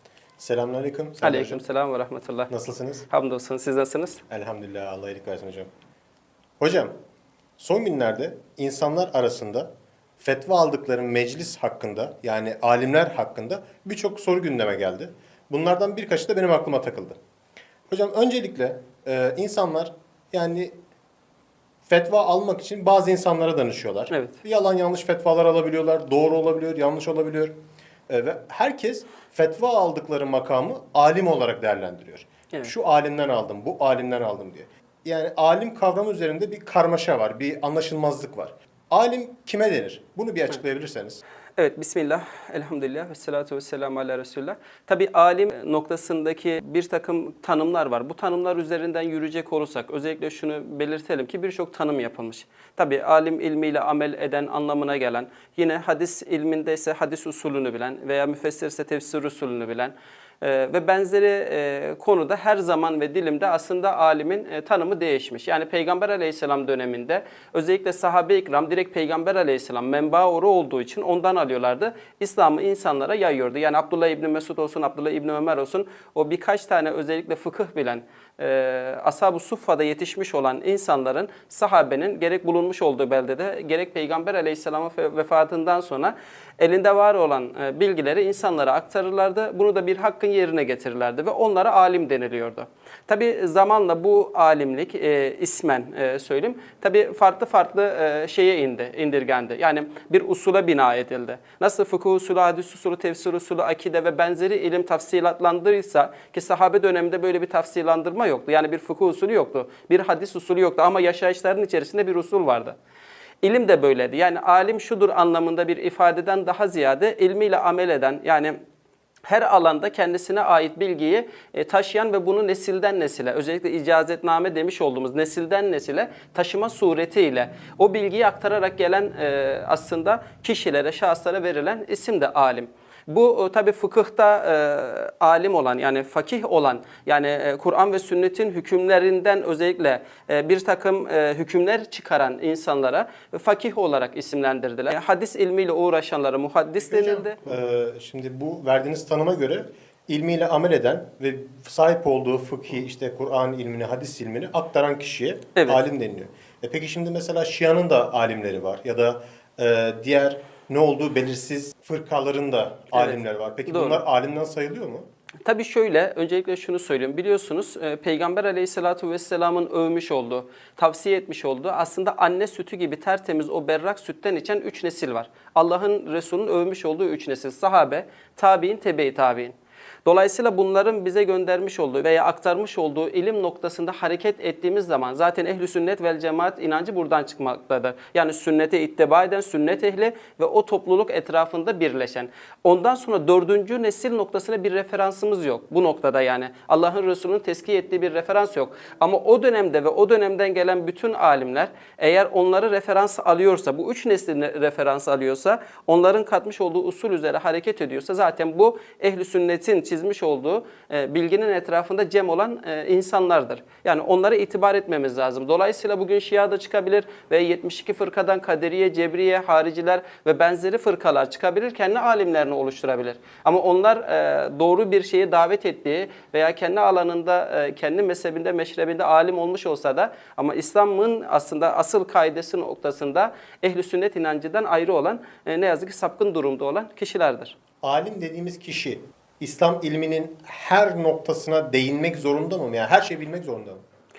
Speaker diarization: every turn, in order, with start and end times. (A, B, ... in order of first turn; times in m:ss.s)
0:00.4-0:01.6 A
0:01.2-0:02.5 B
0:02.5-0:03.1 A
0:03.1-0:04.2 B
0:04.3-0:05.7 A
0:06.6-0:06.9 A
0:07.6-0:17.2 A
0:17.9-0:20.8 A
0:21.9-0:27.5 A
0:24.1-0:24.4 B
0:28.1-0:41.2 A
0:41.6-1:52.8 B
1:53.4-1:58.6 B
1:59.3-2:27.4 B
2:26.9-2:45.0 A
2:35.6-2:35.8 B
2:42.9-2:44.0 B
2:45.5-3:57.6 B
3:57.8-4:03.8 A